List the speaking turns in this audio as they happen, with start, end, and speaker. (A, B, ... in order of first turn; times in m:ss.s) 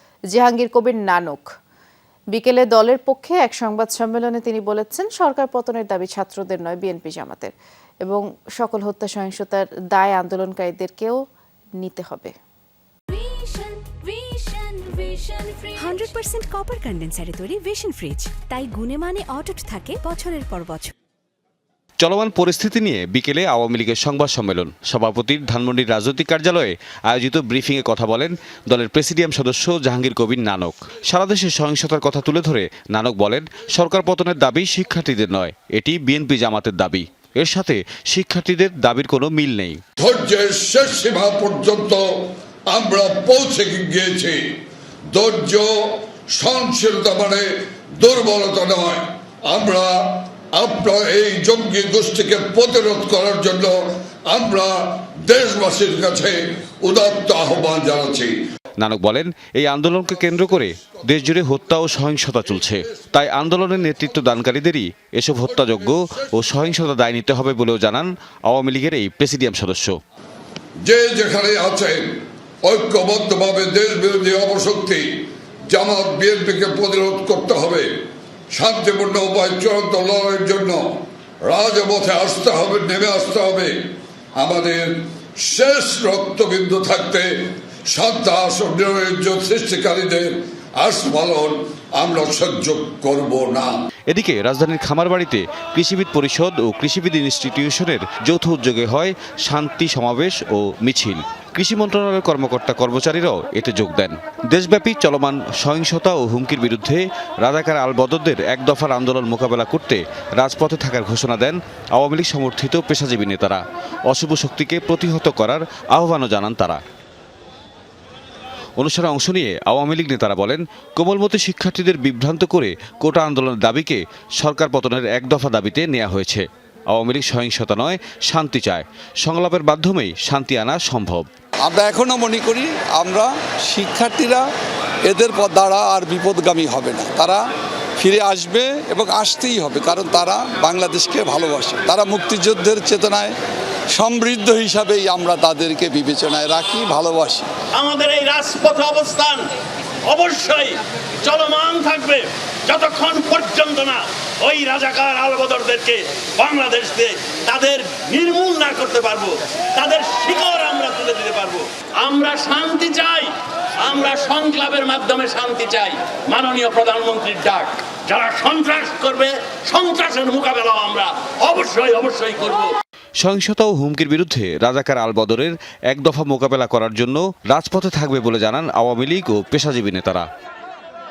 0:00.3-0:01.4 A
0:02.3-0:07.5 A
0:08.0-0:11.2 A
0:11.8-0:12.3 A
0:13.1-0:20.9 B
0:22.0-0:39.8 C
0:40.0-0:44.4 D
0:45.1-0:58.3 D
0:58.8-1:10.0 C
1:10.8-1:12.1 D
1:12.6-1:15.0 D
1:15.7-1:17.9 D
1:18.5-1:20.9 D
1:21.4-1:23.8 D
1:24.4-1:27.3 D
1:27.9-1:33.8 D
1:34.1-1:56.8 C
1:58.8-2:11.3 C
2:11.6-2:14.4 E
2:15.0-2:17.4 E
2:18.0-2:23.3 E
2:23.9-2:27.5 E
2:27.7-2:29.4 F
2:30.0-2:52.7 F
2:53.2-3:00.3 C